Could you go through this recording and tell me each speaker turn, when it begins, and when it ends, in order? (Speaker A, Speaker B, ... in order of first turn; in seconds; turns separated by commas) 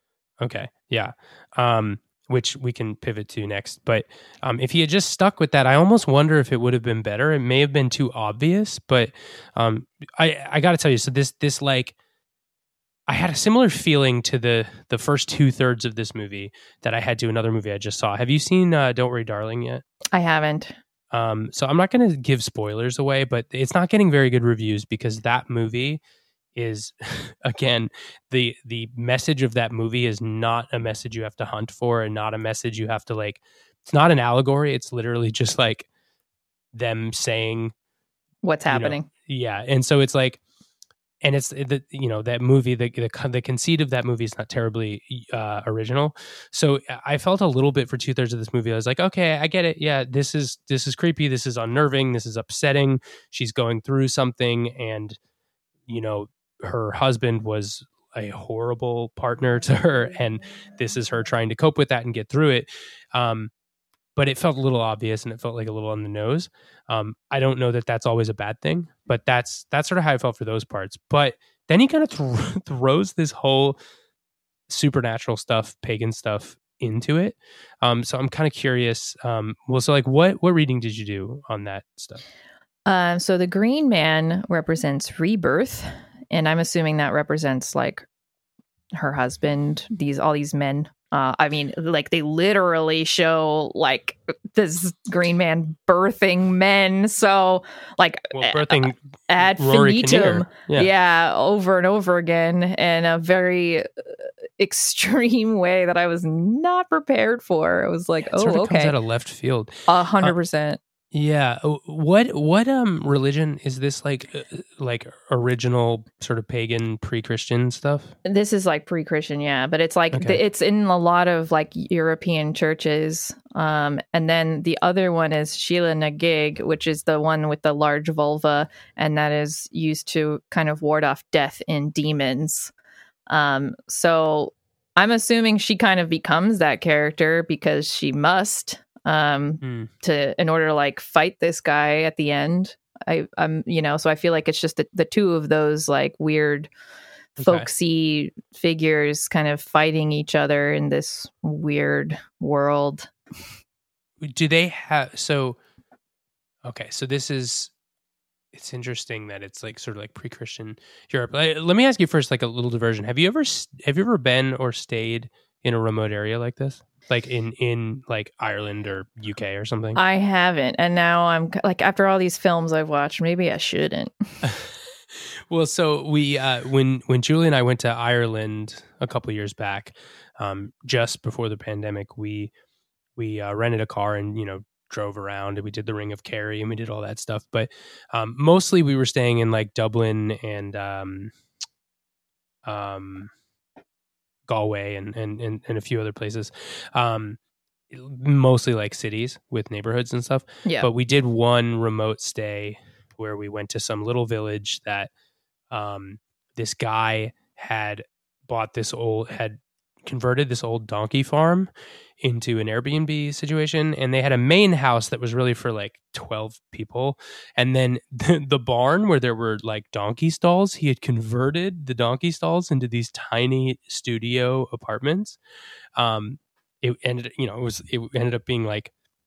Speaker A: 0.4-11.9, Speaker A: 13.1-19.8, Speaker B: 20.1-20.8, Speaker A: 21.1-26.0, Speaker A: 26.6-35.9, Speaker A: 36.7-37.7, Speaker B: 38.4-39.1, Speaker A: 38.7-40.4, Speaker A: 41.2-55.2, Speaker A: 55.9-63.5, Speaker A: 64.2-73.8, Speaker A: 74.7-82.2, Speaker B: 82.9-88.1, Speaker B: 89.0-108.9, Speaker A: 98.3-100.9, Speaker A: 108.3-110.3, Speaker B: 109.9-110.8, Speaker A: 111.1-118.1, Speaker B: 118.2-132.7, Speaker A: 120.1-120.4, Speaker B: 133.3-146.7, Speaker A: 139.6-139.9, Speaker A: 147.4-147.7, Speaker B: 147.4-153.1, Speaker A: 154.2-155.6, Speaker A: 156.6-157.7, Speaker A: 158.5-170.0, Speaker B: 169.9-174.1, Speaker A: 174.4-182.5, Speaker A: 183.2-191.3, Speaker A: 192.7-193.3, Speaker A: 194.5-197.4, Speaker A: 197.9-205.1, Speaker A: 205.7-225.4, Speaker A: 226.0-228.9